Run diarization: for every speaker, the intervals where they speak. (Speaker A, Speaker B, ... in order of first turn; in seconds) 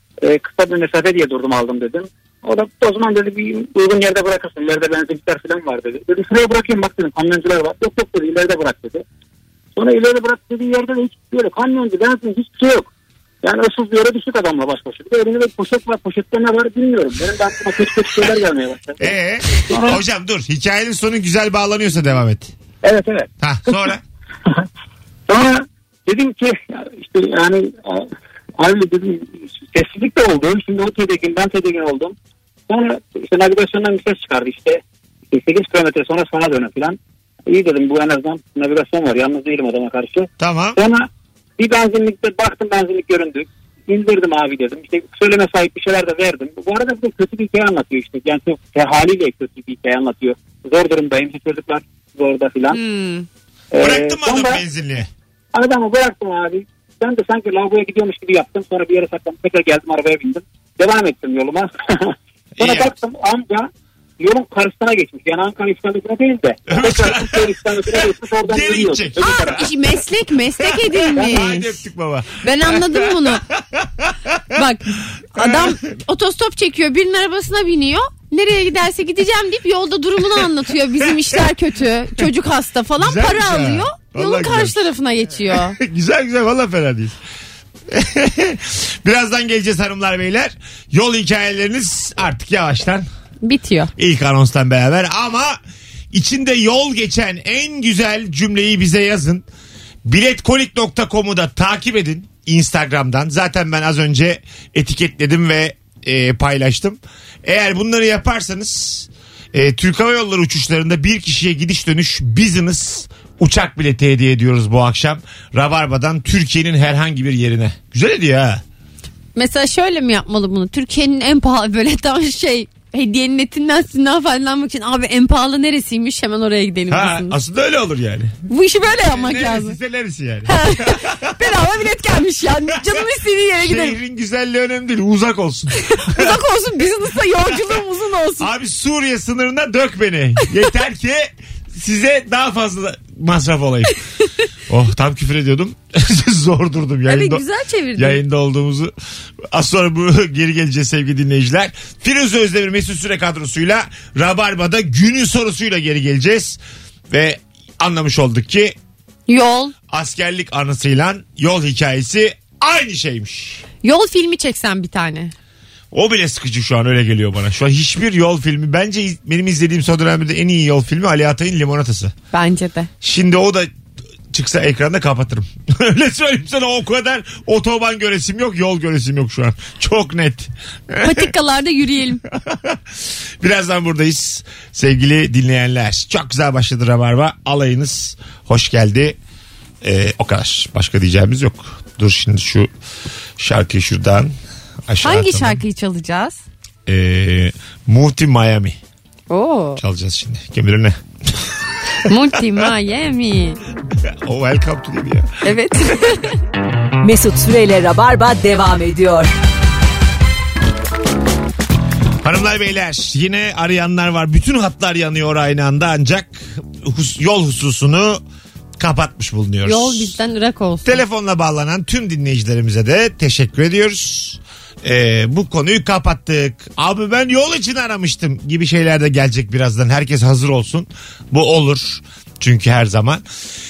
Speaker A: 0.2-9.0, 9.8-12.9, 13.4-19.1, 19.6-20.0, 22.8-23.3, 25.3-28.1, 28.6-32.1, 32.7-34.8, 35.3-41.1, 41.6-52.8, 53.7-54.6, 55.5-63.7, 64.2-69.6
Speaker B: 19.0-22.5, 23.4-24.0, 40.4-40.8, 53.8-55.1, 62.6-62.9, 66.7-69.7, 70.6-74.6, 75.1-75.8, 83.0-84.8, 85.5-87.2, 87.9-93.0, 94.0-95.6, 96.1-99.5, 100.0-118.6, 126.9-128.4, 129.0-131.5, 132.7-133.0, 133.6-136.3, 138.4-144.0, 144.7-147.4, 148.0-148.9, 149.5-156.6, 157.1-158.8, 159.9-163.6, 165.9-172.1, 173.0-173.7, 174.3-181.3, 182.3-182.8, 183.4-189.2, 189.8-192.7, 193.4-194.3, 194.9-195.6, 196.8-198.8, 199.8-201.5, 204.0-206.2, 212.2-218.2, 218.8-220.2, 220.8-233.2
Speaker C: 52.7-53.3, 69.2-71.8, 72.4-73.4, 74.5-85.8, 93.4-93.9, 119.3-127.3, 128.5-129.8, 130.5-134.0, 135.9-138.5, 147.1-148.2, 159.3-159.7, 163.8-165.3, 172.3-172.9, 181.0-182.2, 195.0-196.4, 199.3-199.8, 202.0-203.6, 205.4-206.4, 219.6-221.0
Speaker D: 207.0-209.3